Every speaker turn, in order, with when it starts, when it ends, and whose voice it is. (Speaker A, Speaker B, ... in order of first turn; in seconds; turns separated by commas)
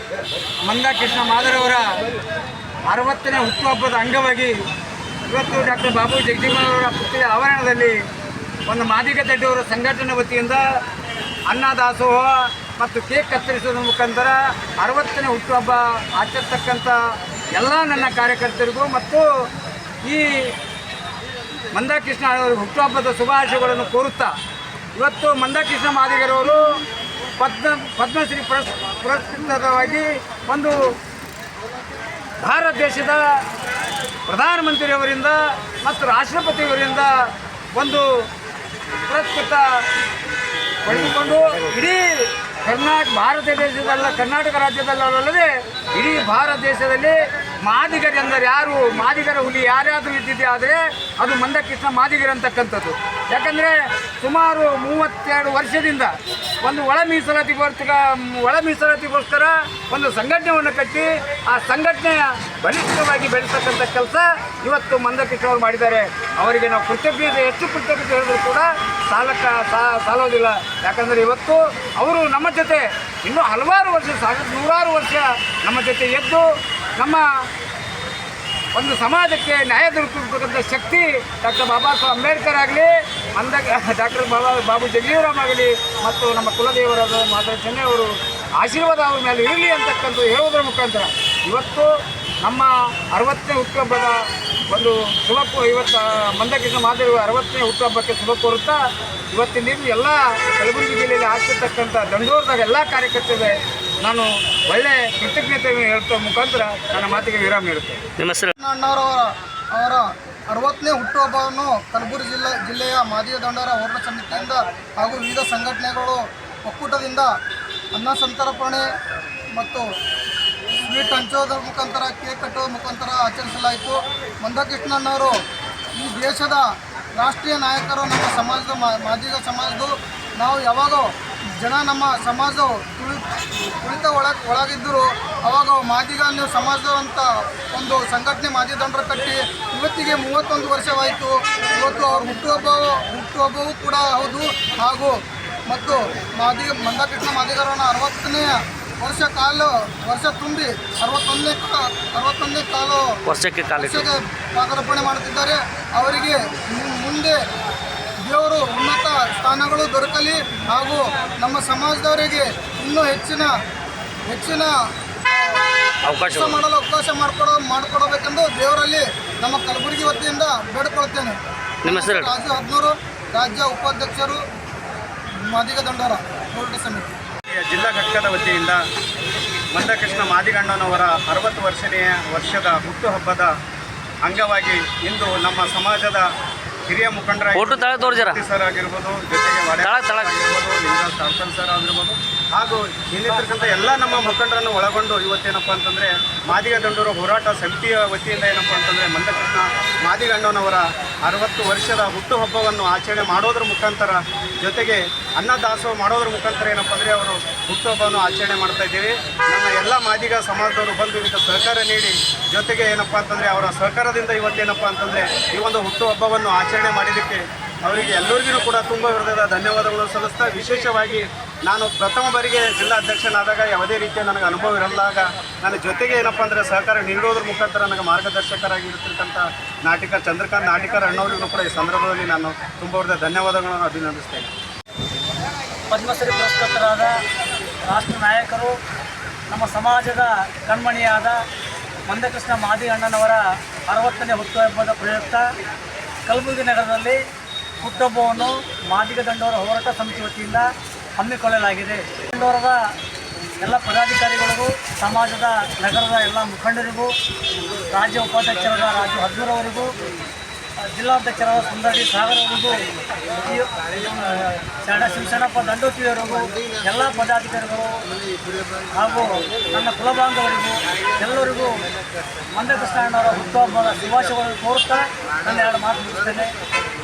Speaker A: 0.7-2.0, Speaker A: 2.9-4.6, Speaker A: 5.3-8.0, Speaker A: 8.7-10.7, Speaker A: 11.5-17.0, Speaker A: 17.5-19.3, Speaker A: 20.0-20.5, Speaker A: 21.7-24.3, Speaker A: 24.9-26.6, Speaker A: 27.4-30.8, Speaker A: 32.4-33.4, Speaker A: 34.3-37.1, Speaker A: 37.7-38.2, Speaker A: 39.1-39.8, Speaker A: 40.8-76.5, Speaker A: 77.0-77.2, Speaker A: 78.7-91.9, Speaker A: 92.4-108.0, Speaker B: 108.2-108.5, Speaker C: 108.6-117.3, Speaker C: 117.9-118.8, Speaker C: 119.5-119.8, Speaker C: 120.8-125.3, Speaker C: 126.0-133.2, Speaker C: 133.8-145.1, Speaker C: 145.7-153.0, Speaker B: 153.2-154.1, Speaker C: 153.8-157.4, Speaker C: 158.2-163.5, Speaker C: 164.3-164.7, Speaker C: 165.2-165.6, Speaker B: 166.1-166.6, Speaker C: 166.2-174.4, Speaker B: 171.8-172.3, Speaker C: 175.5-177.1, Speaker D: 177.5-178.8, Speaker D: 179.7-183.5, Speaker D: 184.2-186.3, Speaker D: 186.9-234.5, Speaker B: 187.5-188.4, Speaker B: 189.8-190.3, Speaker E: 235.9-237.2, Speaker E: 237.9-238.8, Speaker E: 239.5-241.4, Speaker E: 242.1-245.5, Speaker E: 246.2-247.2, Speaker E: 247.8-252.8, Speaker E: 253.6-257.1, Speaker E: 257.9-259.9, Speaker E: 260.8-262.8, Speaker E: 263.4-268.0, Speaker E: 268.9-271.7, Speaker E: 272.5-276.5